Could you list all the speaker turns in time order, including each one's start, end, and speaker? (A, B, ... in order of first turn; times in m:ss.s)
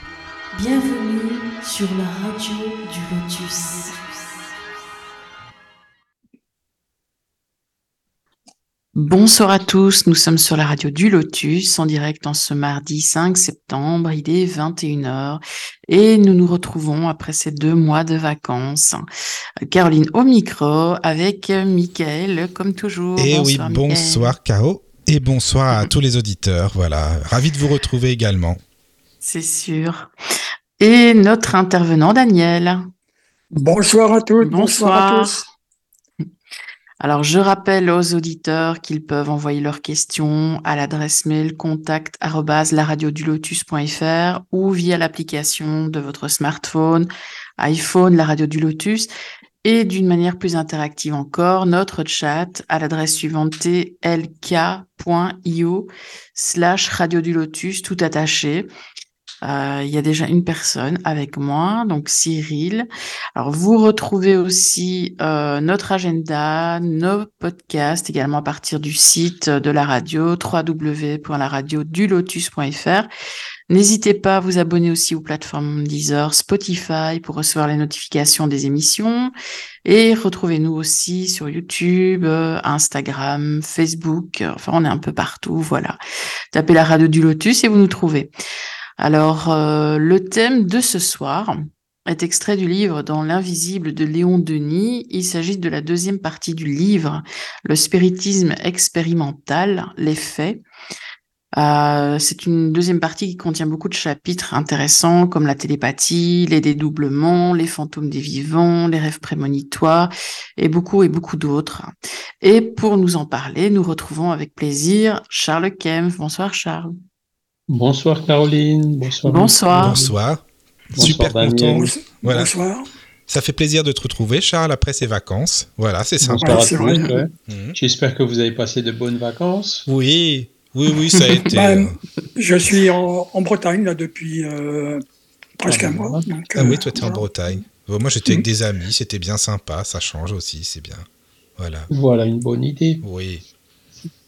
0:00.5-0:03.9 A
0:08.9-0:19.0 B
0:19.7-0:24.4 B
0:23.2-0:28.6 C
0:29.2-0:30.1 B
0:30.8-0:32.8 B
0:33.5-0:35.4 D
0:34.4-0:35.4 B
0:37.0-0:49.1 B
0:49.6-0:58.7 B
0:59.4-1:13.1 B
1:13.7-1:19.3 B
1:19.8-1:26.0 B
1:26.5-1:28.3 B
1:29.0-1:40.6 B
1:41.6-1:56.9 B
1:57.7-2:00.1 E
1:59.2-2:00.0 B
1:59.7-2:02.5 C
2:00.9-2:01.9 E
2:01.0-2:02.9 D
2:03.3-2:06.9 C
2:06.2-2:09.8 E
2:06.4-2:07.2 D
2:07.5-2:07.8 C
2:09.9-2:12.0 C
2:11.5-2:15.0 D
2:15.6-2:17.5 D
2:15.7-2:16.2 E
2:16.6-2:21.1 C
2:21.6-2:21.9 C
2:21.9-2:23.0 E
2:23.0-2:23.4 C